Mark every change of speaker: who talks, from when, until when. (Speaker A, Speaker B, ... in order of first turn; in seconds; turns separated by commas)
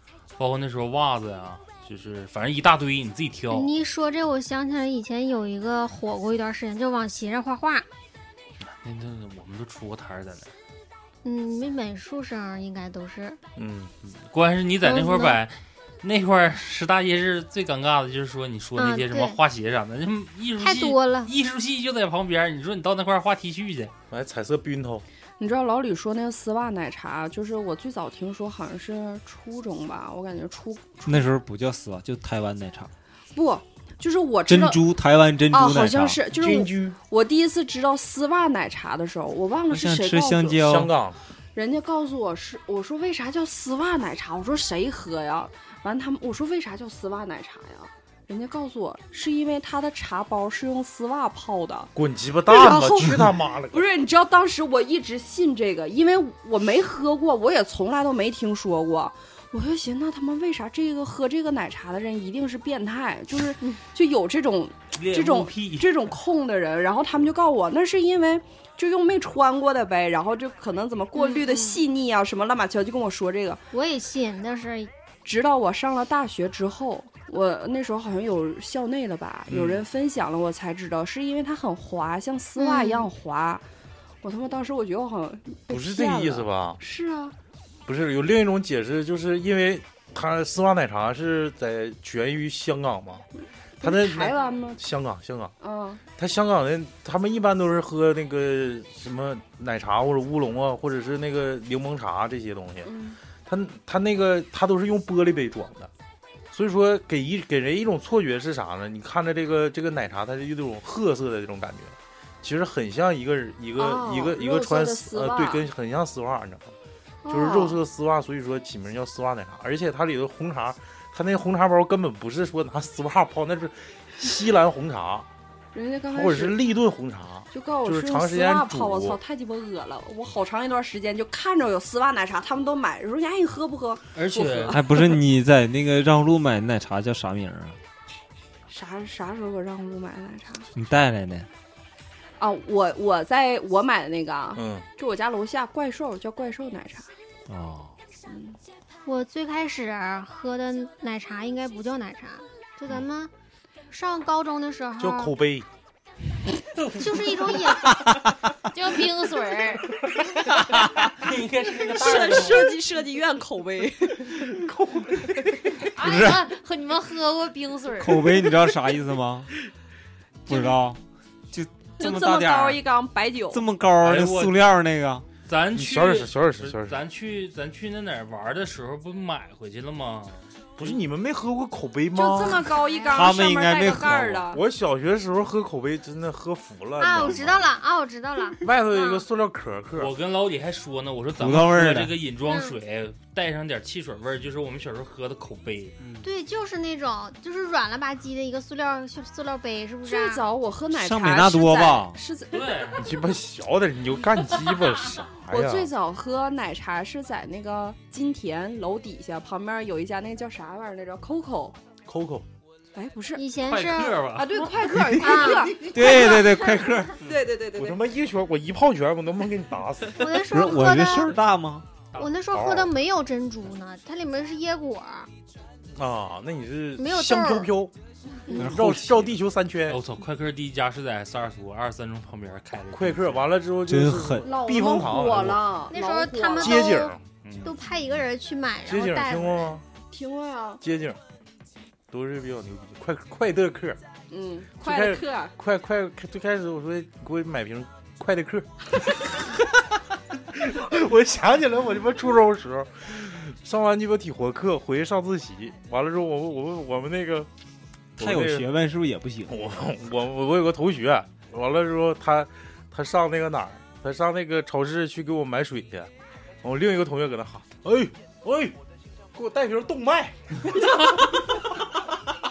Speaker A: 0.4-3.7, Speaker B: 3.5-7.9, Speaker A: 8.6-10.5, Speaker B: 11.2-13.4, Speaker C: 13.6-13.9, Speaker A: 14.0-23.9, Speaker B: 14.8-15.4, Speaker B: 18.8-19.4, Speaker B: 20.6-21.3, Speaker C: 24.1-25.1, Speaker D: 25.4-31.3, Speaker E: 31.1-32.9, Speaker D: 33.3-34.8, Speaker E: 34.5-36.2, Speaker D: 35.5-40.6, Speaker C: 36.3-37.0, Speaker E: 39.7-40.9, Speaker C: 40.6-41.2, Speaker D: 41.5-51.9, Speaker C: 52.0-53.9, Speaker D: 52.5-73.6, Speaker A: 64.9-66.1, Speaker B: 71.2-71.8, Speaker B: 73.7-74.9, Speaker D: 75.2-83.6, Speaker C: 79.5-79.8, Speaker B: 82.6-83.1, Speaker D: 84.2-87.3, Speaker C: 85.7-86.8, Speaker C: 87.9-93.3, Speaker D: 93.8-94.8, Speaker C: 93.8-95.5, Speaker D: 95.6-96.0, Speaker C: 96.2-102.9, Speaker D: 102.8-103.2, Speaker C: 103.5-105.9, Speaker C: 106.5-116.8, Speaker D: 113.8-115.7, Speaker D: 117.2-117.8, Speaker C: 117.3-125.3, Speaker D: 125.7-126.6, Speaker C: 126.1-129.2, Speaker D: 127.5-135.2, Speaker A: 134.2-134.8, Speaker E: 134.7-137.8, Speaker D: 138.7-140.7, Speaker E: 140.7-141.5, Speaker D: 142.4-147.1, Speaker C: 144.6-144.8, Speaker E: 147.5-148.0, Speaker D: 148.3-148.6, Speaker B: 149.1-153.3, Speaker B: 153.9-155.3, Speaker C: 155.0-155.7, Speaker B: 156.9-158.1, Speaker E: 157.9-158.3, Speaker F: 158.7-159.9, Speaker A: 161.2-162.7, Speaker D: 161.9-164.6, Speaker C: 164.3-165.4, Speaker F: 165.9-168.4, Speaker E: 166.0-166.5, Speaker E: 168.0-169.5, Speaker E: 170.5-171.0, Speaker E: 171.5-172.8, Speaker D: 172.0-173.7, Speaker E: 173.5-175.3, Speaker A: 174.0-174.6, Speaker A: 175.5-180.4, Speaker C: 175.8-177.0, Speaker C: 180.8-182.7, Speaker D: 182.1-184.6, Speaker B: 182.6-183.4, Speaker E: 183.1-184.5, Speaker C: 184.5-187.7, Speaker B: 187.0-189.2, Speaker C: 188.6-190.1, Speaker A: 190.0-196.0, Speaker E: 191.3-192.2, Speaker B: 192.5-192.8, Speaker B: 196.2-200.5, Speaker D: 200.1-202.9, Speaker E: 200.9-202.2, Speaker A: 202.5-203.1, Speaker C: 203.0-205.9, Speaker D: 205.5-211.8, Speaker C: 212.1-212.5, Speaker D: 212.9-213.4, Speaker B: 213.3-214.3, Speaker A: 213.6-214.6, Speaker D: 214.3-218.0, Speaker B: 215.1-216.1, Speaker E: 215.8-217.3, Speaker C: 217.8-220.5, Speaker B: 220.1-221.4, Speaker E: 220.5-221.9, Speaker B: 222.2-225.3, Speaker C: 222.5-222.9, Speaker C: 225.9-227.9, Speaker B: 227.0-227.7, Speaker C: 228.5-230.0, Speaker E: 228.5-229.4, Speaker A: 229.9-233.5, Speaker C: 232.9-235.6, Speaker E: 233.9-234.5, Speaker D: 234.4-237.0, Speaker B: 235.9-239.7, Speaker C: 236.6-237.2, Speaker A: 237.4-237.7, Speaker C: 238.9-239.8, Speaker D: 240.1-240.8, Speaker C: 240.8-241.2, Speaker C: 242.1-244.0, Speaker D: 244.3-245.5, Speaker C: 244.8-249.6, Speaker C: 250.5-257.5, Speaker C: 258.2-258.7, Speaker E: 258.2-259.6, Speaker C: 259.5-266.1, Speaker C: 266.6-268.8, Speaker C: 269.4-271.1